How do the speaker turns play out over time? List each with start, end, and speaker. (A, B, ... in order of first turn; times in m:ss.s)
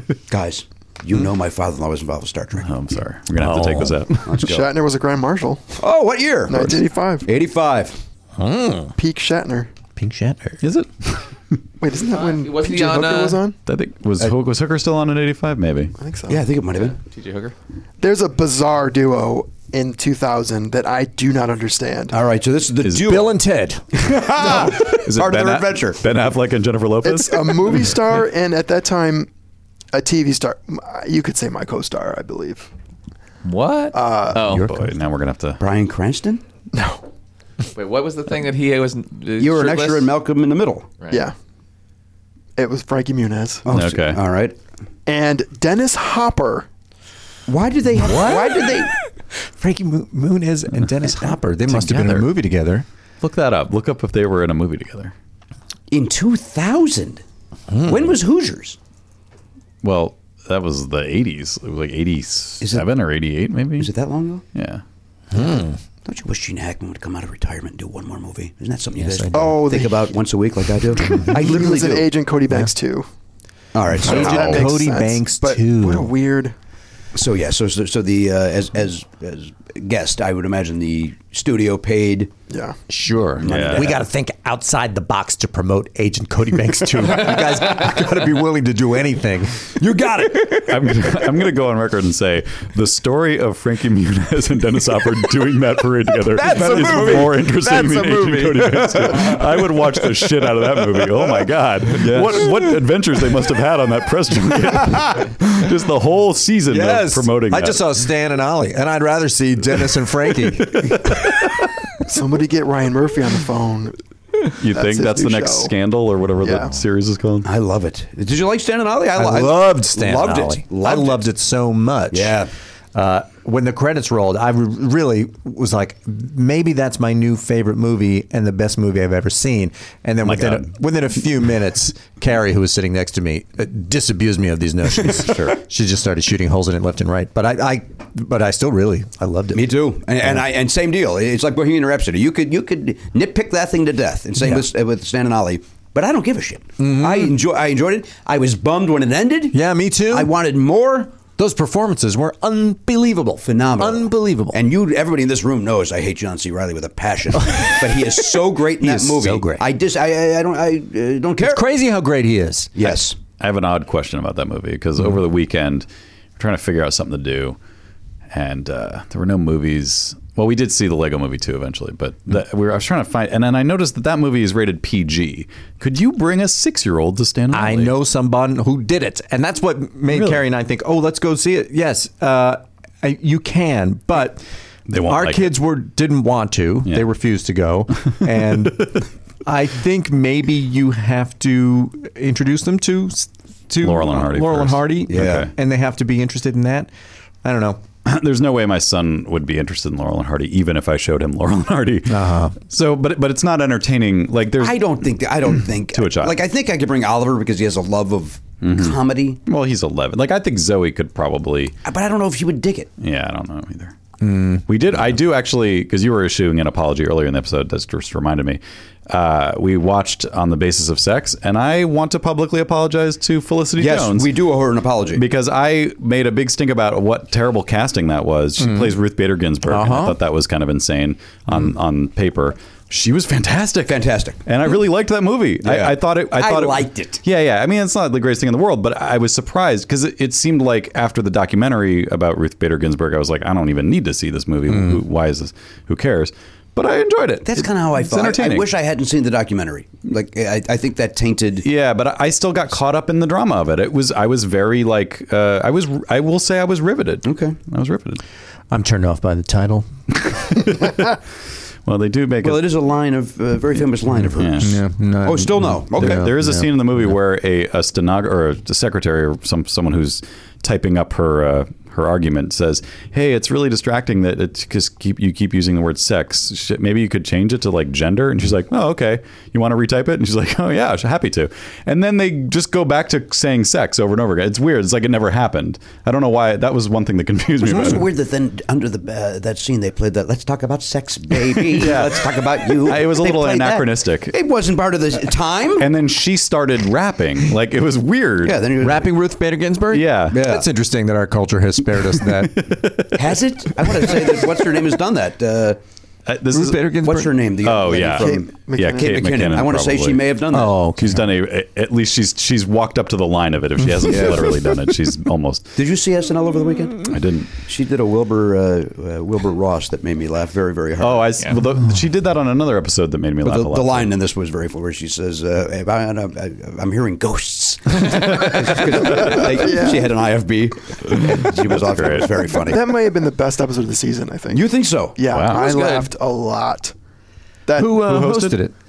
0:00.3-0:02.7 A
0:02.6-0:04.3 B
0:03.4-0:04.1 C
0:04.2-0:04.7 A
0:04.4-0:05.8 D
0:05.8-0:08.0 A
0:06.5-0:07.3 D
0:08.4-0:09.0 C
0:09.0-0:09.7 D
0:10.0-0:10.6 C
0:10.6-0:11.3 B
0:11.8-0:13.6 D
0:12.1-0:13.4 E
0:13.7-0:15.9 B
0:16.0-0:16.4 D
0:16.3-0:17.0 A
0:16.7-0:17.6 E
0:18.0-0:22.2 D
0:22.1-0:23.4 A
0:22.9-0:23.8 C
0:23.9-0:26.0 A
0:24.5-0:28.0 B
0:27.0-0:29.3 D
0:29.9-0:32.7 D
0:33.4-0:34.7 E
0:33.9-0:34.4 D
0:34.4-0:34.9 C
0:34.5-0:35.6 B
0:35.6-0:36.4 A
0:36.7-0:37.0 D
0:37.7-0:40.1 E
0:39.4-0:40.9 A
0:41.0-0:41.3 E
0:42.6-0:43.6 D
0:43.6-0:44.6 A
0:43.7-0:44.2 B
0:45.1-0:46.7 D
0:47.5-0:48.9 A
0:48.0-0:52.8 C
0:51.7-0:52.3 B
0:53.2-0:55.1 B
0:55.9-0:57.2 A
0:57.7-0:58.2 C
0:57.8-0:58.8 A
0:59.8-1:03.9 B
1:02.6-1:02.9 A
1:03.8-1:04.4 A
1:04.5-1:04.8 B
1:05.3-1:05.8 C
1:06.0-1:12.1 A
1:09.0-1:09.6 C
1:09.3-1:10.1 D
1:11.1-1:13.1 D
1:13.7-1:14.6 A
1:14.0-1:16.5 D
1:14.0-1:16.1 C
1:14.3-1:14.6 B
1:17.2-1:22.3 A
1:22.5-1:22.8 D
1:22.9-1:29.9 C
1:23.4-1:24.0 B
1:23.4-1:24.0 A
1:29.8-1:30.6 A
1:30.4-1:47.9 B
1:36.4-1:39.3 E
1:36.4-1:39.9 C
1:40.5-1:41.1 C
1:41.9-1:42.8 C
1:46.7-1:51.7 C
1:50.8-1:51.4 B
1:52.0-1:54.0 D
1:54.6-1:57.5 B
1:54.6-1:55.7 D
1:56.4-1:56.7 D
1:57.4-2:01.3 A
1:59.2-2:02.4 C
2:02.1-2:02.5 A
2:02.9-2:19.7 C
2:10.2-2:10.7 B
2:15.2-2:15.6 B
2:19.5-2:29.6 A
2:26.8-2:27.3 C
2:29.5-2:30.3 C
2:30.1-2:31.1 A
2:31.4-2:34.6 C
2:33.4-2:41.6 A
2:37.3-2:39.6 C
2:41.4-2:42.7 C
2:42.8-2:43.2 A
2:42.9-2:47.6 B
2:48.3-2:58.0 B
2:57.5-3:04.4 C
3:00.1-3:00.4 B
3:04.9-3:05.6 B
3:05.1-3:16.9 C
3:08.4-3:08.7 B
3:13.8-3:15.5 B
3:15.1-3:15.5 A
3:17.4-3:17.8 C
3:18.0-3:25.0 B
3:22.1-3:22.6 C
3:24.6-3:29.4 A
3:25.9-3:26.4 B
3:28.6-3:31.8 B
3:31.8-3:32.9 A
3:33.0-3:34.0 B
3:34.2-3:34.6 C
3:34.6-3:44.3 B
3:43.8-3:45.2 A
3:45.1-4:08.7 B
3:48.6-3:48.9 C
3:49.7-3:50.2 C
3:53.9-3:54.4 A
3:55.6-3:57.2 A
4:07.4-4:11.7 A
4:11.6-4:18.2 B
4:17.2-4:17.6 A
4:18.7-4:19.9 C
4:20.2-4:21.2 B
4:21.9-4:22.7 B
4:22.4-4:26.3 A
4:24.4-4:24.8 B
4:24.6-4:26.8 C
4:26.0-4:48.1 B
4:47.6-4:55.9 A
4:51.8-4:52.1 B
4:52.8-4:54.4 B
4:55.8-4:58.7 B
4:58.4-4:59.1 A
4:58.8-5:02.9 C
4:59.9-5:00.4 B
5:00.3-5:00.7 A
5:02.2-5:03.3 B
5:03.1-5:05.8 A
5:06.3-5:07.0 B
5:06.5-5:07.4 C
5:07.0-5:10.8 A
5:07.6-5:10.3 B
5:08.0-5:09.4 D
5:10.5-5:11.2 C
5:11.0-5:15.8 B
5:14.1-5:14.4 A
5:15.8-5:17.1 A
5:17.0-5:17.5 B
5:17.6-5:21.3 A
5:21.0-5:24.1 B
5:23.4-5:32.8 A
5:28.1-5:29.6 B
5:29.3-5:30.1 D
5:31.7-5:32.4 B
5:32.7-5:34.6 D
5:34.5-5:36.0 A
5:35.2-5:36.9 D
5:35.3-5:35.8 B
5:37.7-5:38.0 D
5:37.8-5:38.7 C
5:37.9-5:38.6 B